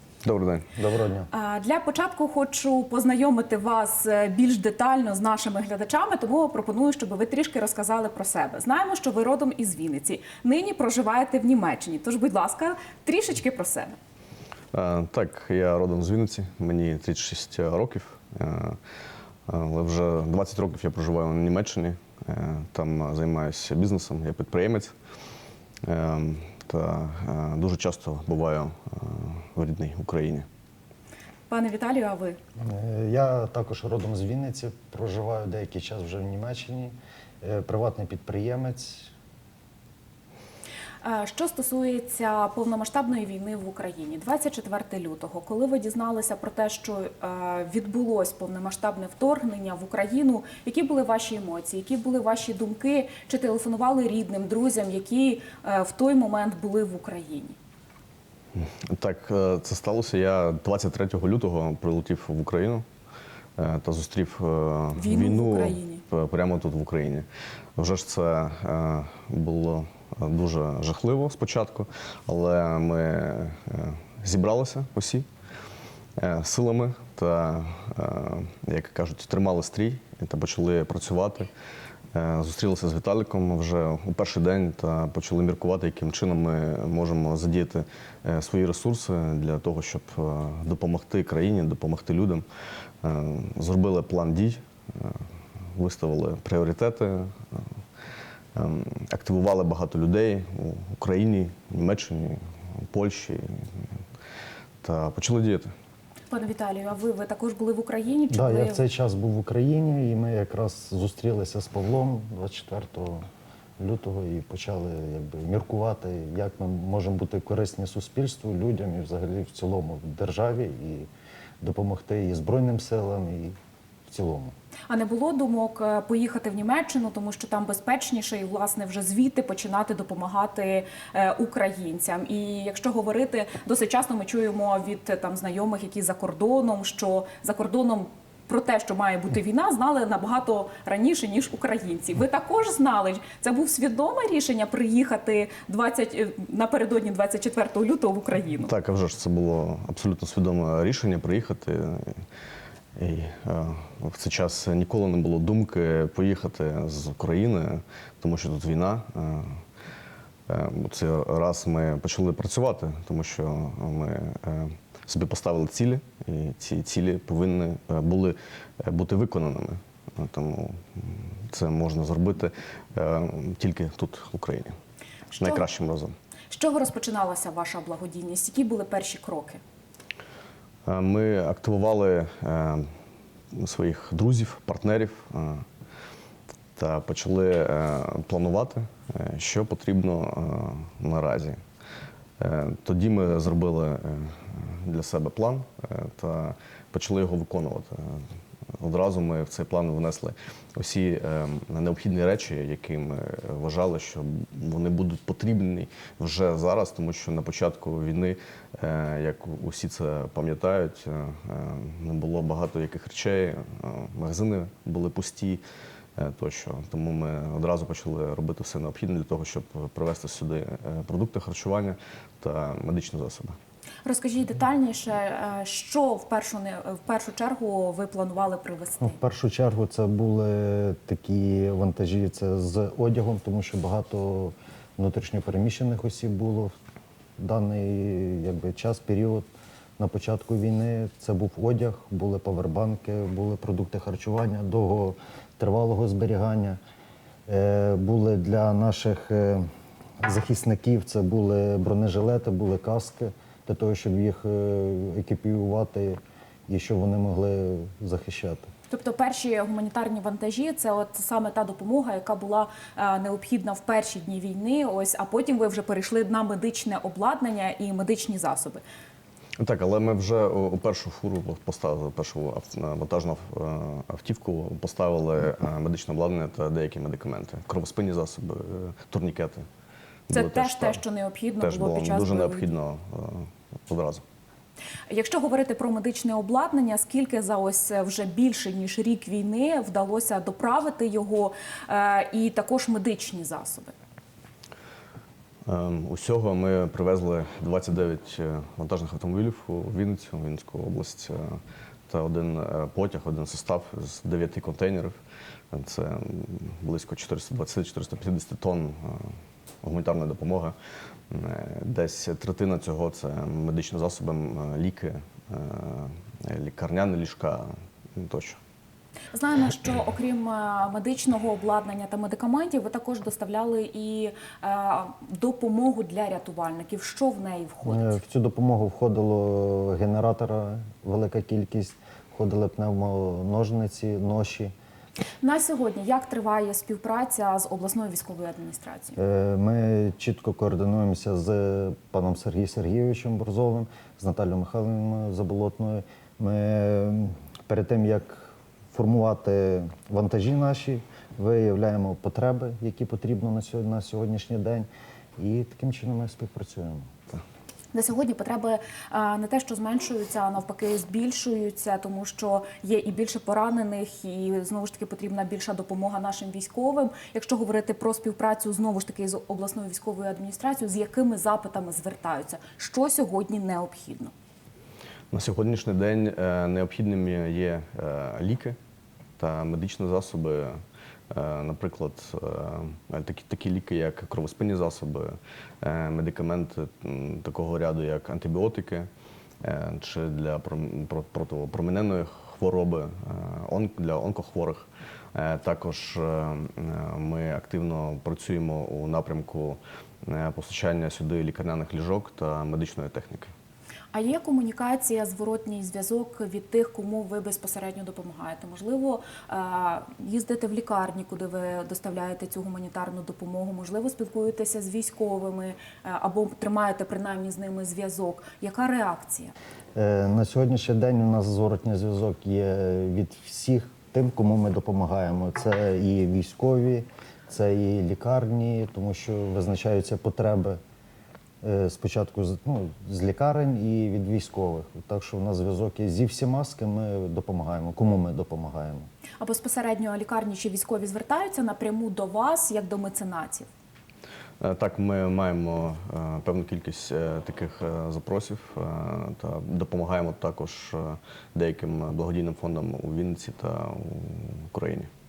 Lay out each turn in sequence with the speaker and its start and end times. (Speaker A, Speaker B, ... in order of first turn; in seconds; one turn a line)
Speaker A: 0.2-0.7
Speaker B: 0.8-1.3
Speaker C: 1.3-14.0
Speaker A: 14.7-18.8
Speaker A: 19.5-24.9
Speaker A: 25.9-30.5
Speaker C: 31.5-32.4
Speaker B: 32.6-39.1
Speaker C: 41.0-57.6
Speaker A: 58.5-62.9
Speaker A: 63.6-67.3
Speaker C: 65.0-66.0
Speaker A: 67.8-75.3
Speaker A: 76.2-81.5
Speaker A: 82.1-92.5
Speaker A: 93.0-95.2
Speaker A: 95.8-97.7
Speaker A: 98.5-102.4
Speaker A: 102.9-103.7
Speaker A: 104.8-105.7
Speaker C: 106.3-108.8
Speaker B: 108.3-113.3
Speaker B: 113.8-121.1
Speaker B: 121.6-123.6
Speaker B: 124.1-124.5
Speaker C: 124.9-148.7
Speaker A: 148.7-152.2
Speaker A: 153.0-159.6
Speaker A: 160.5-174.8
Speaker A: 175.3-176.1
Speaker C: 175.4-175.7
Speaker C: 176.5-179.6
Speaker A: 180.9-182.9
Speaker A: 183.5-185.6
Speaker A: 186.8-191.6
Speaker A: 192.4-198.2
Speaker A: 198.8-215.6
Speaker A: 216.2-223.6
Speaker C: 224.1-229.2
Speaker B: 229.0-236.7
Speaker B: 237.4-246.8
Speaker B: 247.5-249.7
Speaker B: 250.2-258.7
Speaker C: 258.9-268.8
Speaker A: 269.6-279.7
Speaker A: 280.3-281.0
Speaker C: 280.3-282.7
Speaker A: 281.6-284.2
Speaker C: 285.1-293.9
Speaker A: 295.7-301.5
Speaker A: 302.1-305.2
Speaker A: 305.7-310.8
Speaker A: 311.3-318.6
Speaker C: 319.3-328.2
Speaker B: 327.9-334.7
Speaker C: 335.4-339.2
Speaker B: 339.2-357.1
Speaker C: 357.9-374.3
Speaker A: 375.3-378.8
Speaker A: 379.4-380.8
Speaker A: 381.3-389.1
Speaker A: 389.6-403.5
Speaker C: 404.1-419.5
Speaker B: 419.9-430.8
Speaker B: 431.6-439.1
Speaker C: 439.4-443.7
Speaker A: 444.6-455.1